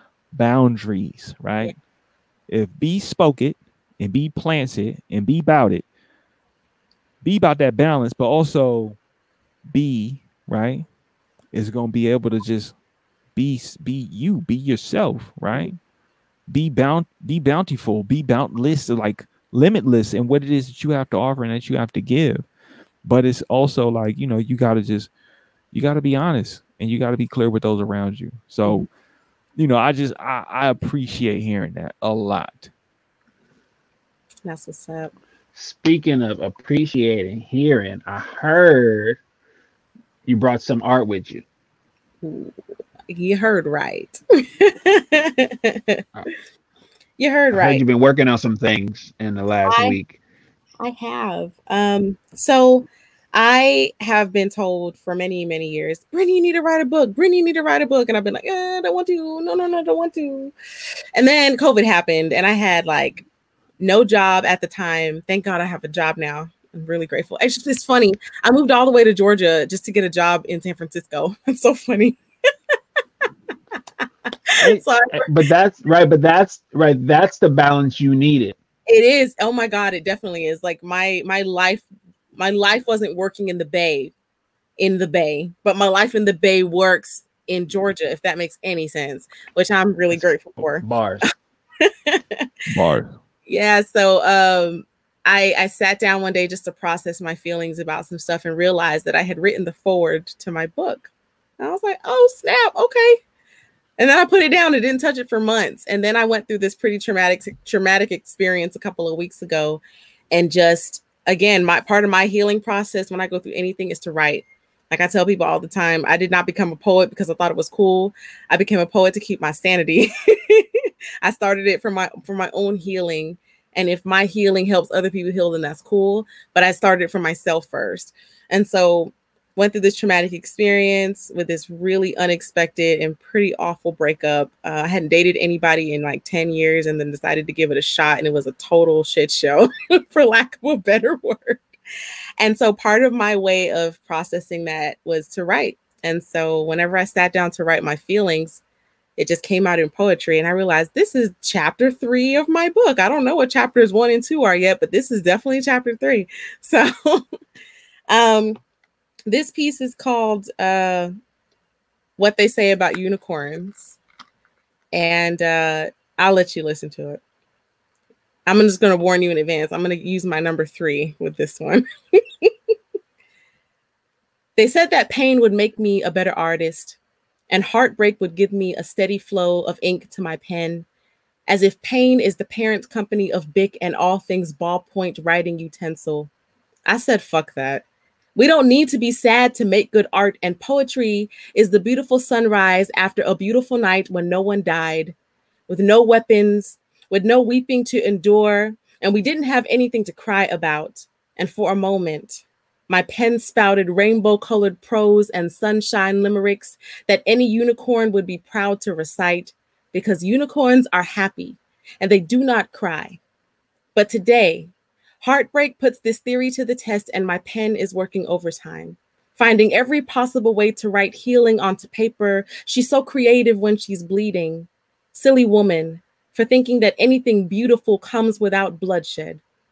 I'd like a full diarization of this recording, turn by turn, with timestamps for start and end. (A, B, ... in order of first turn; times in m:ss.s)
0:00.3-0:01.7 A
0:02.5-0:05.8 A
0:07.2-0:09.0 A
0:09.7-0:10.9 A
0:11.5-0:12.7 A
0:13.3-0:15.7 A
0:16.5-0:22.4 A
0:23.0-0:25.1 A
0:25.7-0:28.9 A
0:29.6-0:32.7 A
0:34.4-0:35.1 B
0:35.5-0:39.2 C
0:40.2-0:41.4 C
0:42.2-0:42.5 B
0:43.1-0:46.0 B
0:47.2-0:47.8 B
0:47.5-0:50.2 C
0:49.6-0:50.0 B
0:50.8-1:00.5 B
1:01.1-1:03.2 B
1:03.8-1:12.2 B
1:14.5-1:15.3 B
1:14.6-1:18.6 C
1:18.9-1:24.1 B
1:24.8-1:30.8 B
1:30.1-1:31.2 C
1:31.8-1:32.5 B
1:32.7-1:33.2 A
1:33.5-1:43.2 B
1:44.0-2:21.6 B
2:22.4-2:28.6 B
2:29.2-2:37.2 B
2:38.1-2:38.6 B
2:39.2-2:41.1 B
2:42.2-2:44.0 B
2:44.9-2:47.2 B
2:48.5-2:52.5 B
2:54.6-2:57.0 B
2:57.5-3:00.8 B
3:01.5-3:06.3 B
3:06.8-3:15.2 B
3:15.7-3:33.2 B
3:33.9-3:49.4 B